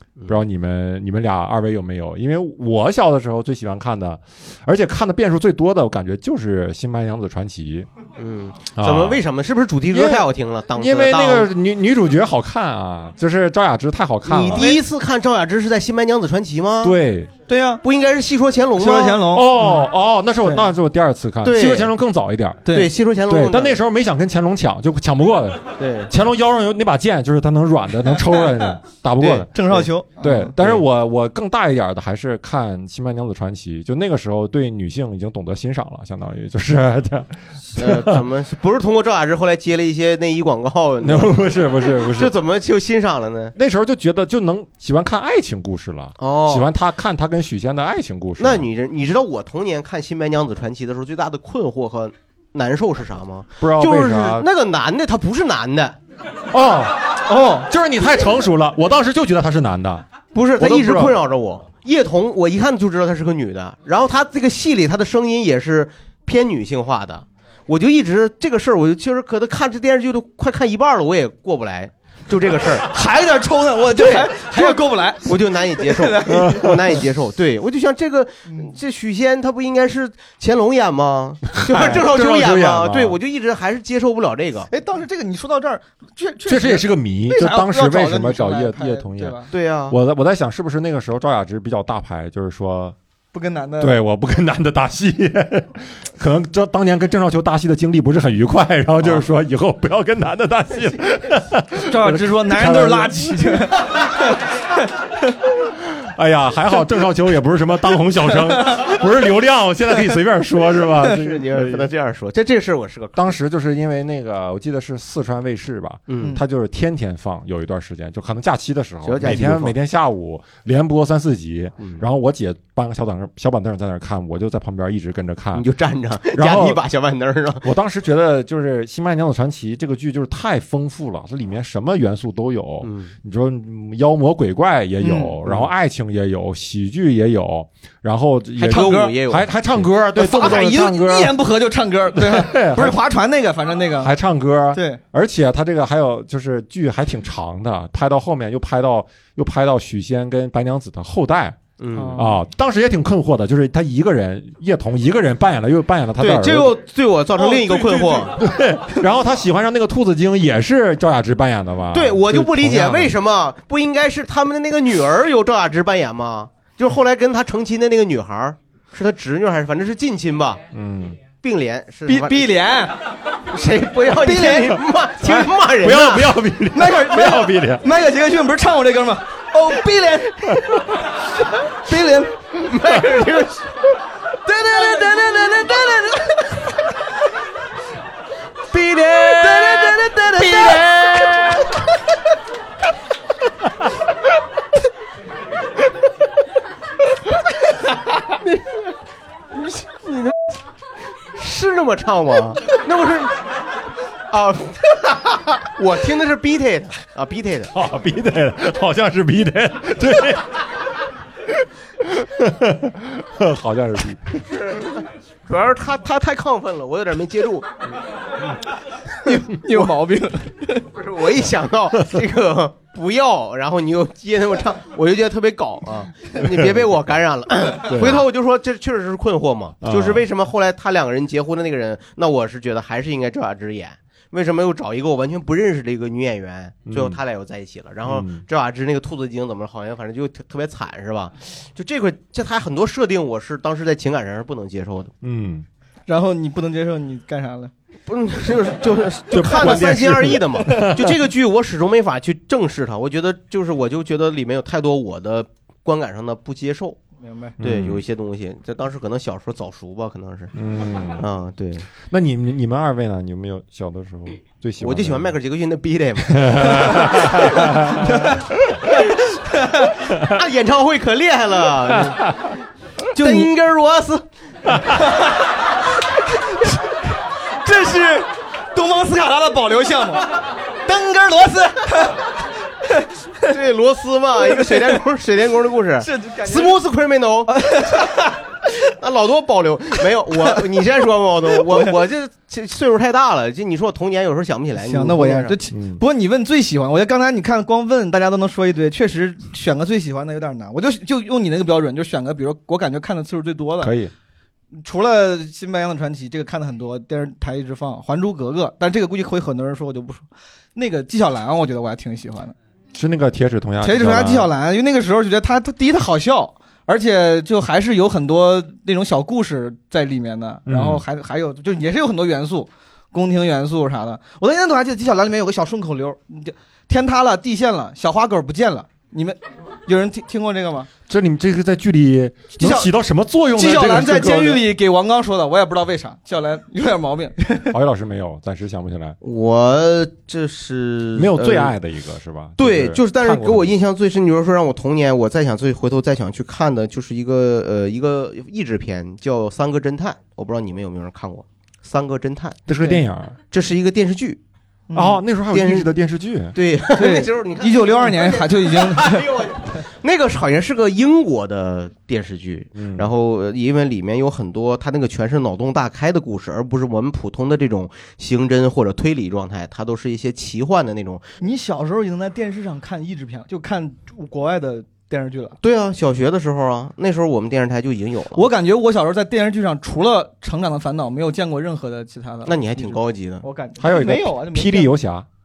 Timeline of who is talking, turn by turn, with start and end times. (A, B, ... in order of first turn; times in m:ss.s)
0:00.3-0:07.9 A
0:08.2-0:11.5 B
0:08.8-0:09.2 A
0:09.9-0:14.7 A
0:14.3-0:17.0 B
0:14.5-0:14.8 C
0:16.8-0:17.4 A
0:17.5-0:17.8 C
0:17.8-0:19.4 B
0:18.8-0:19.8 C
0:19.3-0:22.7 A
0:21.4-0:21.9 B
0:22.6-0:22.9 C
0:22.7-0:23.8 B
0:23.3-0:29.5 A
0:25.8-0:26.1 B
0:29.2-0:29.8 B
0:29.5-0:30.5 C
0:30.2-0:38.2 A
0:37.7-0:41.4 B
0:41.0-0:42.4 A
0:42.0-0:43.6 B
0:43.6-0:48.7 A
0:46.2-0:46.7 B
0:48.4-0:56.0 B
0:53.6-0:54.5 A
0:56.5-1:00.1 A
0:57.3-0:57.7 C
1:00.3-1:12.9 B
1:00.6-1:01.2 A
1:12.8-1:16.6 C
1:13.9-1:24.7 B
1:16.3-1:16.7 A
1:21.6-1:23.2 A
1:24.7-1:29.5 C
1:26.5-1:33.0 A
1:29.5-1:30.0 B
1:33.3-1:34.0 C
1:33.8-1:43.4 A
1:41.8-1:44.3 C
1:45.9-1:51.9 A
1:51.2-1:53.3 B
1:53.2-2:05.7 A
1:56.1-1:56.4 B
1:59.0-1:59.8 B
2:05.6-2:07.6 B
2:06.3-2:06.8 A
2:07.6-2:21.4 A
2:12.8-2:13.1 B
2:15.0-2:15.4 C
2:18.6-2:19.9 B
2:18.7-2:19.2 C
2:20.2-2:24.1 C
2:22.2-2:23.0 A
2:24.0-2:31.6 A
2:24.7-2:25.0 C
2:31.8-2:32.2 B
2:32.0-2:32.3 C
2:32.1-2:36.8 A
2:36.2-2:38.4 B
2:37.4-2:38.2 C
2:38.4-2:43.2 A
2:41.9-2:50.6 B
2:50.7-2:51.2 A
2:51.4-2:52.5 B
2:52.1-2:52.9 C
2:53.5-2:56.3 B
2:54.2-2:54.7 C
2:55.4-2:57.9 A
2:56.7-3:00.6 C
3:01.9-3:02.4 C
3:02.6-3:03.7 B
3:04.5-3:06.1 C
3:04.9-3:05.7 B
3:08.7-3:11.7 A
3:09.4-3:10.8 C
3:19.6-3:20.4 B
3:21.3-3:23.4 B
3:24.3-3:27.7 B
3:27.7-3:30.5 A
3:32.1-3:34.4 A
3:34.6-3:37.7 B
3:39.3-3:40.9 C
3:40.9-4:05.1 B
3:47.9-3:48.2 A
3:49.8-3:50.2 A
3:56.9-3:57.2 A
3:58.0-3:58.4 A
4:05.2-4:05.7 A
4:06.1-4:07.7 C
4:08.1-4:17.0 B
4:09.3-4:11.1 A
4:17.2-4:17.6 C
4:17.6-4:18.0 A
4:17.6-4:20.5 B
4:20.5-4:21.3 A
4:21.2-4:21.9 B
4:22.1-4:25.4 A
4:24.8-4:27.1 B
4:26.4-4:28.0 A
4:29.6-4:29.9 C
4:30.2-4:32.2 B
4:33.2-4:34.8 B
4:33.2-4:33.5 C
4:35.0-4:35.4 C
4:36.3-4:36.8 C
4:37.6-4:40.3 C
4:40.8-4:42.2 C
4:43.5-4:47.6 B
4:44.4-4:45.0 C
4:46.0-4:46.8 C
4:47.5-4:48.2 C
4:48.8-4:55.6 B
4:54.8-5:04.0 C
4:55.7-4:56.0 A
5:03.8-5:04.1 A
5:04.8-5:12.6 C
5:12.9-5:14.5 A
5:13.8-5:30.9 C
5:20.7-5:21.0 A
5:31.1-5:34.6 A
5:32.6-5:32.9 C
5:33.6-5:37.7 C
5:37.7-5:39.2 A
5:39.2-5:41.7 B
5:41.2-5:43.7 A
5:42.6-5:52.6 B
5:52.7-5:53.4 A
5:52.7-5:53.0 C
5:53.5-5:54.4 B
5:54.9-5:55.2 C
5:54.9-5:56.6 A
5:55.5-5:55.9 B
5:56.5-6:11.2 B
5:57.0-5:59.3 C
6:02.8-6:03.1 A
6:11.4-6:15.6 C
6:15.6-6:18.5 B
6:18.3-6:24.9 C
6:22.4-6:23.4 B
6:23.8-6:25.3 A